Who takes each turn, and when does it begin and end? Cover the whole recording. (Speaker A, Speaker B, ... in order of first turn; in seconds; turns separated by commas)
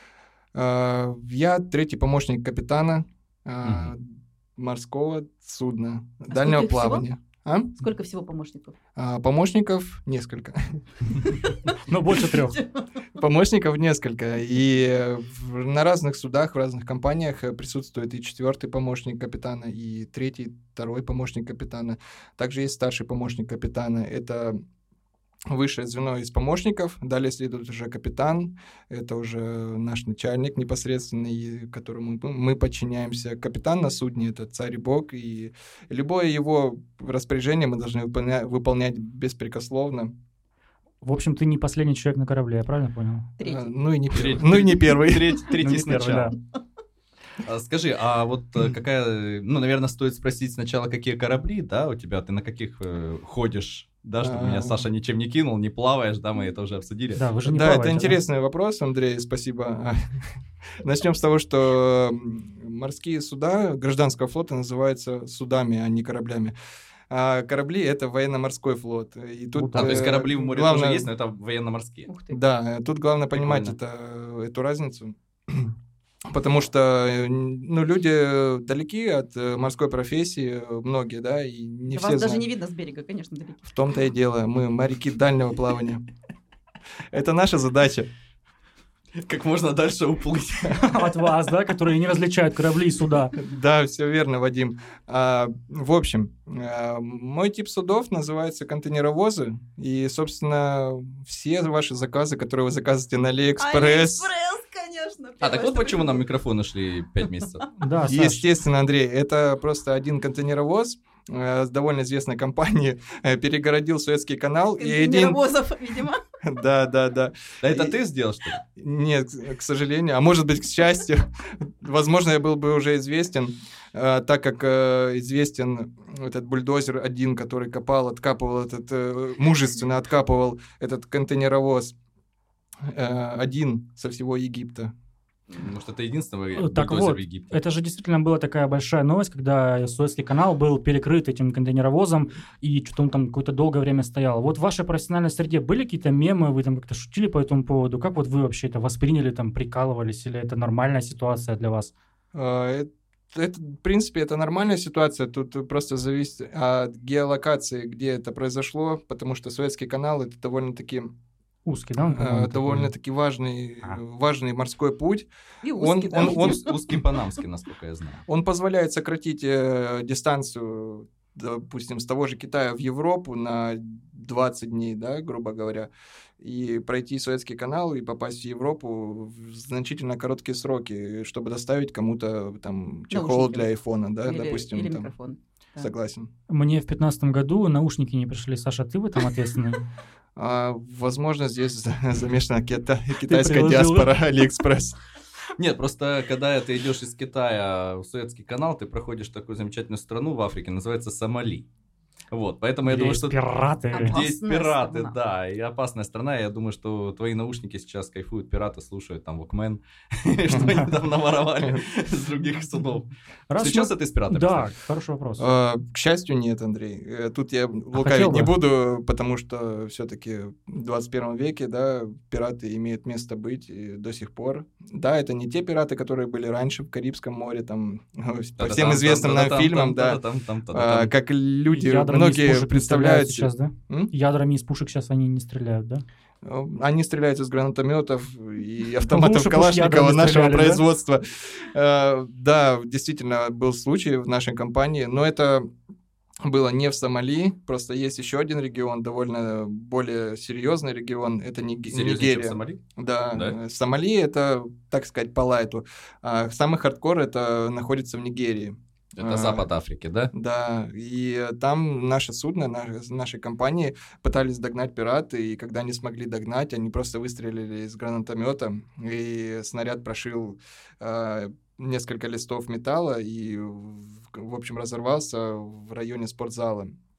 Speaker A: 0.5-7.8, Speaker B: 3.6-3.9, Speaker C: 6.3-7.0, Speaker C: 7.8-8.8, Speaker A: 8.9-11.2, Speaker D: 11.8-12.6, Speaker C: 12.3-13.1, Speaker A: 13.1-24.6, Speaker A: 25.5-40.1, Speaker D: 41.0-43.3, Speaker C: 43.4-43.7, Speaker A: 43.4-45.5, Speaker B: 44.1-46.3, Speaker D: 45.6-46.4, Speaker B: 47.4-57.2, Speaker A: 54.2-54.8, Speaker D: 57.1-58.2, Speaker A: 57.5-60.2, Speaker A: 60.8-66.5, Speaker A: 67.1-71.1, Speaker D: 69.5-70.1, Speaker B: 69.7-72.1, Speaker C: 72.1-72.4, Speaker A: 72.3-75.7, Speaker B: 73.4-73.7, Speaker A: 76.3-82.5, Speaker C: 81.9-83.7, Speaker A: 83.7-86.0, Speaker A: 87.1-88.1, Speaker B: 89.1-91.0, Speaker D: 90.8-93.3, Speaker A: 93.3-104.3, Speaker C: 103.6-106.2, Speaker B: 105.4-107.7, Speaker D: 107.8-108.4, Speaker A: 108.0-115.4, Speaker C: 114.8-116.2, Speaker A: 116.4-118.0, Speaker B: 117.6-118.6, Speaker A: 118.6-131.9, Speaker A: 132.8-134.9, Speaker B: 135.5-137.5, Speaker D: 136.5-151.9, Speaker A: 152.3-161.1, Speaker D: 161.7-162.9, Speaker A: 162.0-166.6, Speaker C: 165.6-166.9, Speaker B: 166.1-168.2, Speaker A: 168.3-185.1, Speaker C: 183.1-183.7, Speaker C: 184.2-185.9, Speaker A: 185.8-186.3, Speaker D: 186.5-189.8, Speaker A: 190.3-195.0, Speaker D: 193.2-194.1, Speaker B: 195.6-201.7, Speaker B: 202.3-203.4, Speaker D: 202.8-204.2, Speaker C: 203.9-205.1, Speaker B: 203.9-214.7, Speaker A: 210.5-210.8, Speaker D: 210.6-210.8, Speaker A: 211.6-211.8, Speaker D: 213.5-215.6, Speaker A: 215.4-234.1, Speaker D: 217.9-218.5, Speaker B: 228.6-231.1, Speaker D: 231.7-236.0, Speaker A: 236.4-245.7, Speaker D: 239.1-240.8, Speaker A: 246.4-259.7, Speaker B: 251.9-252.8, Speaker B: 259.2-260.3, Speaker A: 260.3-276.9